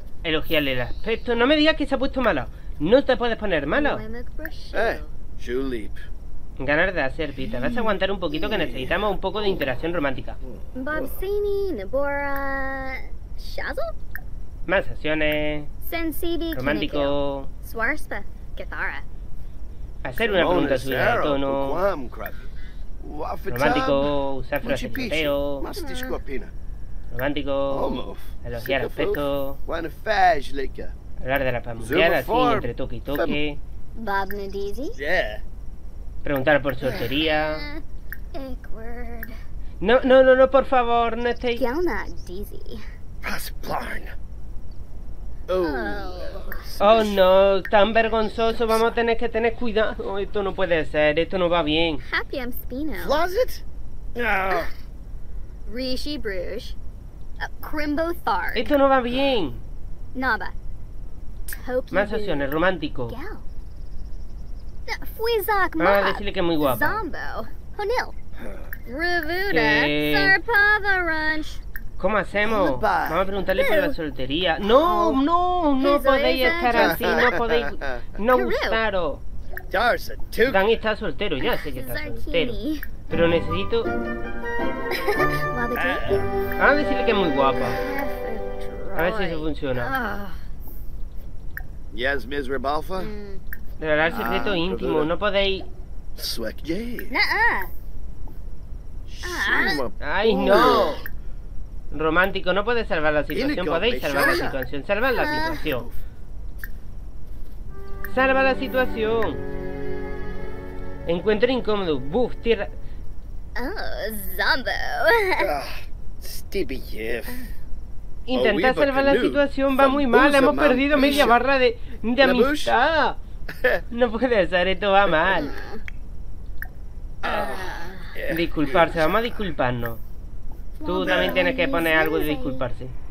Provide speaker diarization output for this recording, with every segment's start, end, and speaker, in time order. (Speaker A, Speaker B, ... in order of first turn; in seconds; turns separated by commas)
Speaker A: 0.2-4.0, Speaker B: 3.7-5.1, Speaker C: 4.7-6.0, Speaker A: 6.6-10.4, Speaker C: 8.3-9.2, Speaker C: 10.4-11.1, Speaker B: 10.8-13.9, Speaker A: 14.7-15.7, Speaker B: 15.8-19.1, Speaker A: 16.5-17.5, Speaker A: 20.0-21.8, Speaker C: 20.2-22.5, Speaker C: 23.0-26.5, Speaker A: 23.5-25.7, Speaker B: 25.8-26.2, Speaker A: 27.1-29.6, Speaker C: 27.7-30.9, Speaker A: 31.2-33.6, Speaker C: 31.8-33.4, Speaker B: 34.0-35.0, Speaker C: 35.0-35.4, Speaker A: 36.2-37.6, Speaker B: 36.9-37.8, Speaker B: 38.3-39.4, Speaker A: 39.8-41.6, Speaker B: 41.6-42.8, Speaker C: 43.2-44.1, Speaker C: 45.5-47.2, Speaker B: 45.5-46.7, Speaker A: 46.8-52.0, Speaker C: 48.2-49.0, Speaker B: 52.0-53.2, Speaker C: 53.0-53.6, Speaker C: 54.1-54.7, Speaker B: 55.7-56.8, Speaker B: 57.4-58.7, Speaker A: 58.5-59.6, Speaker B: 60.1-60.5, Speaker B: 61.5-62.5, Speaker A: 61.9-63.2, Speaker B: 63.1-63.5, Speaker B: 64.9-68.2, Speaker A: 65.8-67.0, Speaker C: 68.4-68.7, Speaker B: 68.9-71.6, Speaker A: 69.5-70.4, Speaker A: 72.0-79.2, Speaker C: 72.4-73.3, Speaker B: 73.5-74.0, Speaker B: 74.6-75.2, Speaker B: 75.8-77.3, Speaker C: 76.8-78.0, Speaker B: 78.3-78.8, Speaker C: 79.7-80.7, Speaker A: 80.5-82.6, Speaker B: 81.4-82.9, Speaker A: 83.1-83.9, Speaker B: 84.9-86.2, Speaker C: 85.7-86.3, Speaker A: 86.6-87.8, Speaker B: 87.6-90.4, Speaker A: 89.0-90.0, Speaker C: 91.9-93.1, Speaker B: 93.0-93.4, Speaker A: 93.8-95.7, Speaker C: 94.0-95.1, Speaker C: 96.2-97.1, Speaker B: 97.1-97.7, Speaker C: 99.1-101.0, Speaker B: 99.2-99.8, Speaker A: 100.0-100.9, Speaker B: 100.5-101.0, Speaker A: 101.9-105.9, Speaker C: 103.3-104.6, Speaker B: 105.1-105.7, Speaker C: 105.7-106.0, Speaker A: 108.1-109.4, Speaker A: 111.1-112.7, Speaker B: 113.6-115.5, Speaker C: 115.4-117.5, Speaker A: 118.3-123.2, Speaker C: 118.3-121.4, Speaker C: 122.2-122.8, Speaker C: 123.5-123.8, Speaker A: 123.9-125.6, Speaker C: 125.1-125.4, Speaker B: 125.3-125.8, Speaker C: 127.2-129.4, Speaker B: 127.2-128.2, Speaker A: 128.3-130.0, Speaker B: 130.8-132.6, Speaker A: 130.8-132.9, Speaker C: 131.0-131.4